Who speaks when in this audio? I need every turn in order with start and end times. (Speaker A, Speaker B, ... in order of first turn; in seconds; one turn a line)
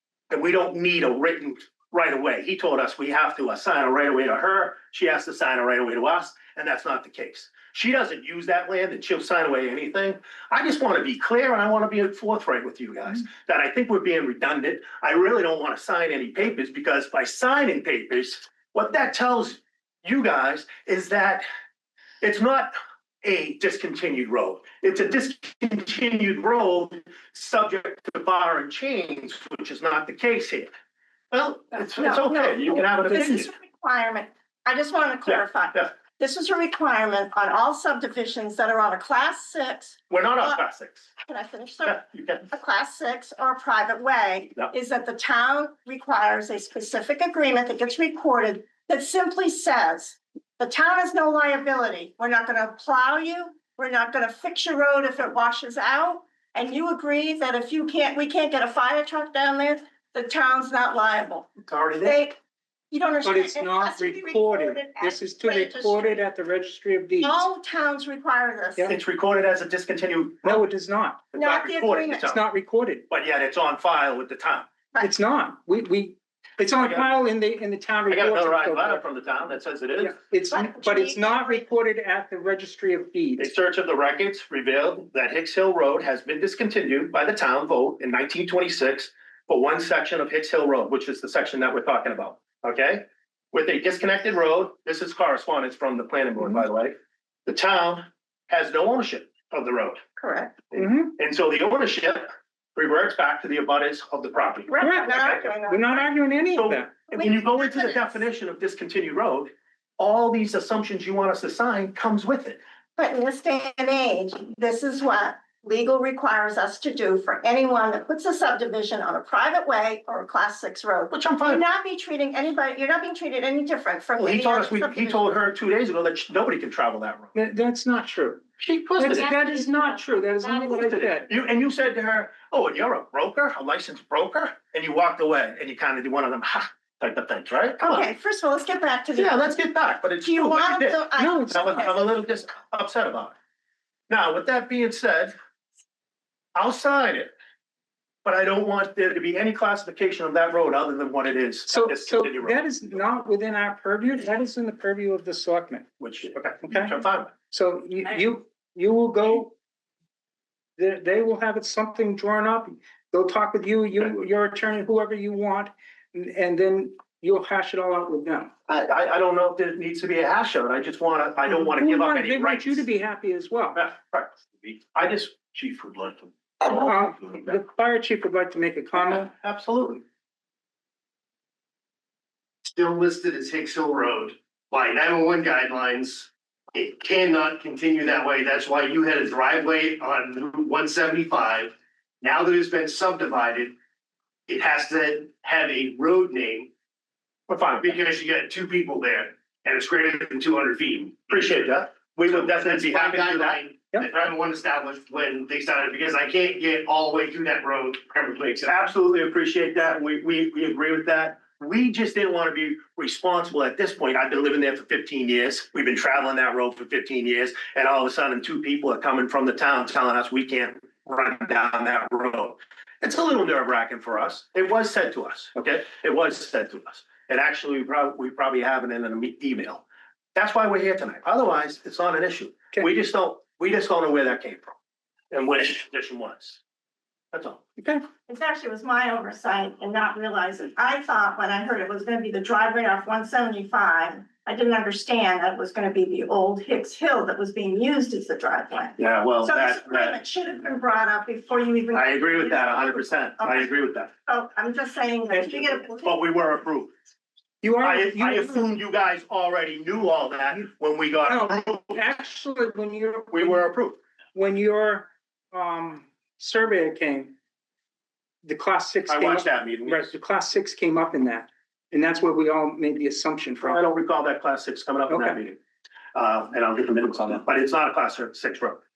Speaker A: 0.3-21.4
Speaker A: 22.2-30.7
Speaker A: 31.3-33.5
Speaker B: 31.9-40.6
Speaker A: 35.3-35.9
Speaker A: 40.1-41.1
Speaker B: 41.2-62.4
Speaker A: 41.8-42.5
Speaker A: 61.6-62.2
Speaker B: 62.9-66.2
Speaker C: 63.2-67.5
Speaker B: 67.2-68.9
Speaker A: 68.9-70.6
Speaker C: 70.4-71.3
Speaker B: 71.3-72.2
Speaker A: 71.3-72.4
Speaker C: 72.1-73.0
Speaker A: 73.1-74.7
Speaker C: 75.0-79.0
Speaker A: 76.8-77.1
Speaker A: 78.1-80.2
Speaker C: 80.0-83.5
Speaker B: 80.5-81.6
Speaker A: 83.4-100.0
Speaker B: 100.2-100.6
Speaker A: 100.7-105.5
Speaker C: 100.7-101.1
Speaker B: 104.7-106.0
Speaker C: 104.8-106.9
Speaker A: 106.5-112.6
Speaker B: 107.1-108.2
Speaker B: 113.0-125.2
Speaker A: 121.1-121.6
Speaker A: 124.2-127.3
Speaker C: 127.3-128.4
Speaker A: 128.6-129.3
Speaker C: 129.0-131.3
Speaker A: 130.7-138.1
Speaker B: 137.8-139.4
Speaker A: 139.2-143.3
Speaker B: 140.2-142.2
Speaker C: 141.2-141.8
Speaker A: 144.1-145.3
Speaker A: 146.5-147.3
Speaker A: 148.2-152.6
Speaker C: 151.7-155.8
Speaker A: 156.0-157.3
Speaker C: 157.5-159.5
Speaker C: 160.8-168.5
Speaker A: 168.7-172.8
Speaker C: 171.5-173.8
Speaker A: 173.7-176.7
Speaker C: 176.7-179.3
Speaker A: 179.1-180.0
Speaker D: 182.7-193.8
Speaker D: 194.5-196.7
Speaker A: 197.5-197.9
Speaker D: 197.8-201.6
Speaker A: 201.3-203.6
Speaker D: 202.2-208.8
Speaker A: 208.6-234.8
Speaker A: 235.3-236.6
Speaker A: 237.3-237.7
Speaker B: 238.3-253.7
Speaker A: 249.0-250.2
Speaker A: 251.9-254.1
Speaker B: 254.2-256.2
Speaker A: 255.4-256.9
Speaker C: 257.6-258.7
Speaker A: 257.8-262.0
Speaker C: 261.3-263.6
Speaker A: 263.3-264.0
Speaker C: 264.3-267.3
Speaker C: 268.4-273.8
Speaker A: 269.1-270.1
Speaker A: 273.6-275.6
Speaker C: 275.1-275.4
Speaker A: 276.1-278.8